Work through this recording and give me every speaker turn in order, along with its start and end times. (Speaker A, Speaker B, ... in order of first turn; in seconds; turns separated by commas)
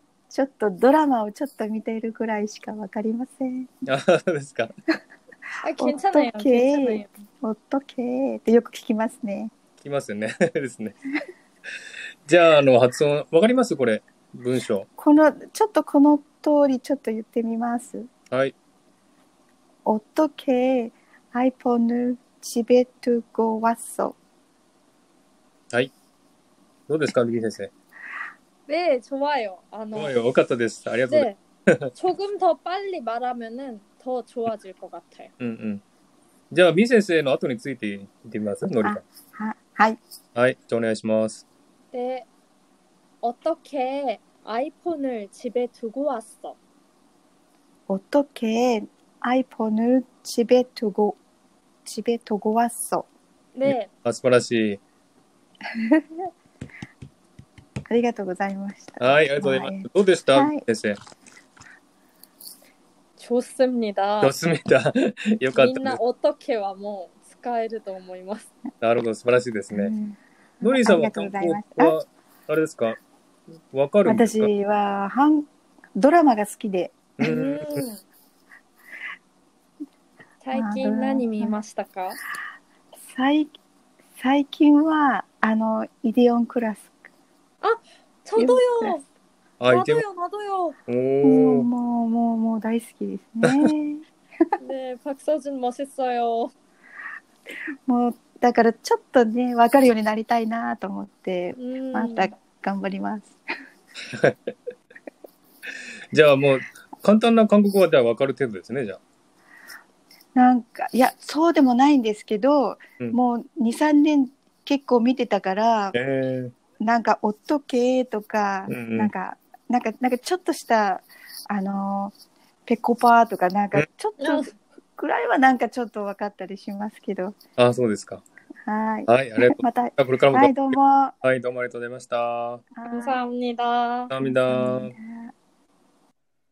Speaker A: 0.3-3.7, Speaker B: 3.9-4.7, Speaker C: 5.6-7.1, Speaker A: 5.8-9.5, Speaker B: 9.8-10.9, Speaker B: 12.2-14.9, Speaker A: 15.0-18.1, Speaker A: 19.8-24.2, Speaker B: 26.9-27.7, Speaker C: 28.7-30.1, Speaker B: 29.9-31.9, Speaker C: 31.1-31.4, Speaker C: 31.9-35.3, Speaker B: 35.4-35.8, Speaker B: 36.5-39.0, Speaker A: 38.8-40.0, Speaker B: 40.3-41.4, Speaker C: 41.9-42.3, Speaker C: 43.2-46.6, Speaker A: 47.9-51.2, Speaker A: 51.8-53.1, Speaker C: 53.5-53.9, Speaker B: 53.6-54.8, Speaker A: 55.8-56.0, Speaker A: 57.9-60.6, Speaker B: 59.0-61.0, Speaker C: 63.2-64.3, Speaker B: 64.2-66.0, Speaker C: 65.5-68.5, Speaker B: 68.8-69.9, Speaker A: 69.7-71.9, Speaker B: 70.6-73.0, Speaker B: 73.7-74.5, Speaker A: 74.0-77.0, Speaker B: 77.2-77.8, Speaker C: 77.2-78.0, Speaker C: 80.4-82.2, Speaker A: 80.5-81.6, Speaker A: 83.0-83.5, Speaker A: 84.2-86.9, Speaker C: 87.6-89.0, Speaker A: 88.4-89.0, Speaker B: 89.6-90.0, Speaker C: 89.7-90.8, Speaker B: 90.9-91.7, Speaker A: 91.2-94.5, Speaker B: 93.4-93.7, Speaker C: 94.6-96.5, Speaker A: 97.8-103.4, Speaker C: 101.6-102.3, Speaker B: 104.1-104.5, Speaker B: 106.1-109.0, Speaker A: 110.3-115.9, Speaker B: 115.9-116.5, Speaker A: 116.8-122.1, Speaker B: 118.7-119.1, Speaker A: 122.7-127.4, Speaker C: 124.2-124.5, Speaker B: 127.6-128.2, Speaker A: 128.6-131.1, Speaker B: 129.1-130.6, Speaker B: 131.2-132.6, Speaker A: 132.7-133.2, Speaker C: 132.9-134.1, Speaker B: 134.1-134.9, Speaker A: 134.2-135.3